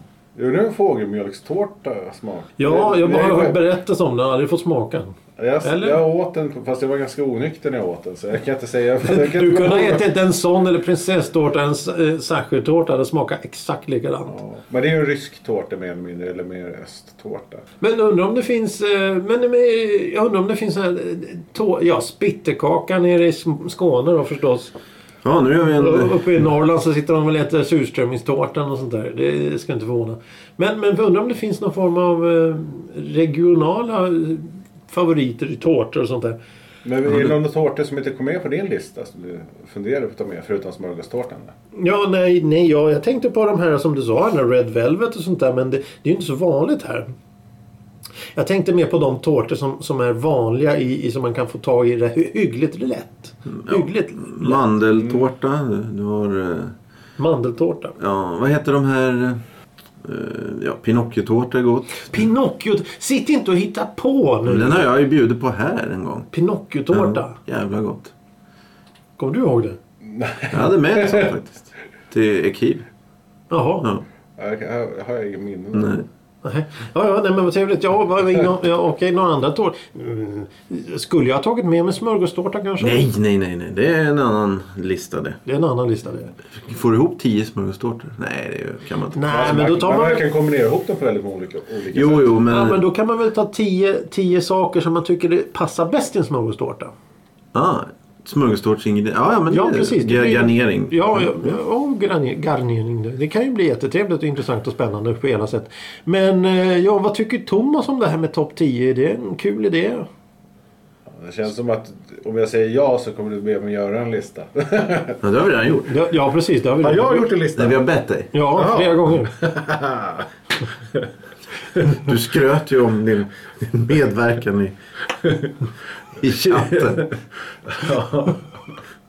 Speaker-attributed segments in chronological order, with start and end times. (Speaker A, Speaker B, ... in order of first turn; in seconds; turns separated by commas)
Speaker A: 0.3-3.6, Speaker B: 2.6-6.0, Speaker A: 5.4-10.1, Speaker B: 9.0-14.4, Speaker A: 14.3-17.6, Speaker B: 17.8-24.7, Speaker C: 25.2-26.3, Speaker B: 25.7-36.4, Speaker A: 36.9-41.5, Speaker C: 37.1-37.3, Speaker B: 41.8-47.1, Speaker B: 48.4-54.7, Speaker C: 53.6-56.7, Speaker B: 57.2-58.0, Speaker C: 58.0-59.4, Speaker C: 60.0-62.1, Speaker B: 62.1-64.9, Speaker C: 64.5-66.3, Speaker B: 66.3-67.4, Speaker C: 66.9-68.1, Speaker B: 69.2-69.8, Speaker A: 70.0-71.3, Speaker C: 70.5-72.9, Speaker B: 73.5-73.9, Speaker A: 74.4-76.0, Speaker C: 75.7-76.1, Speaker B: 76.4-83.1, Speaker C: 82.8-85.4, Speaker B: 85.5-86.3, Speaker C: 86.5-89.6, Speaker B: 89.1-90.2, Speaker A: 89.3-92.3, Speaker C: 91.9-92.8, Speaker B: 92.5-96.9, Speaker C: 97.5-101.5, Speaker B: 99.5-110.1, Speaker A: 111.1-115.2, Speaker C: 115.2-116.0, Speaker B: 115.9-117.3, Speaker A: 116.8-117.8, Speaker C: 117.5-118.3, Speaker B: 118.3-119.3, Speaker A: 118.5-120.3, Speaker C: 121.9-124.8, Speaker C: 126.2-127.1, Speaker A: 126.4-128.8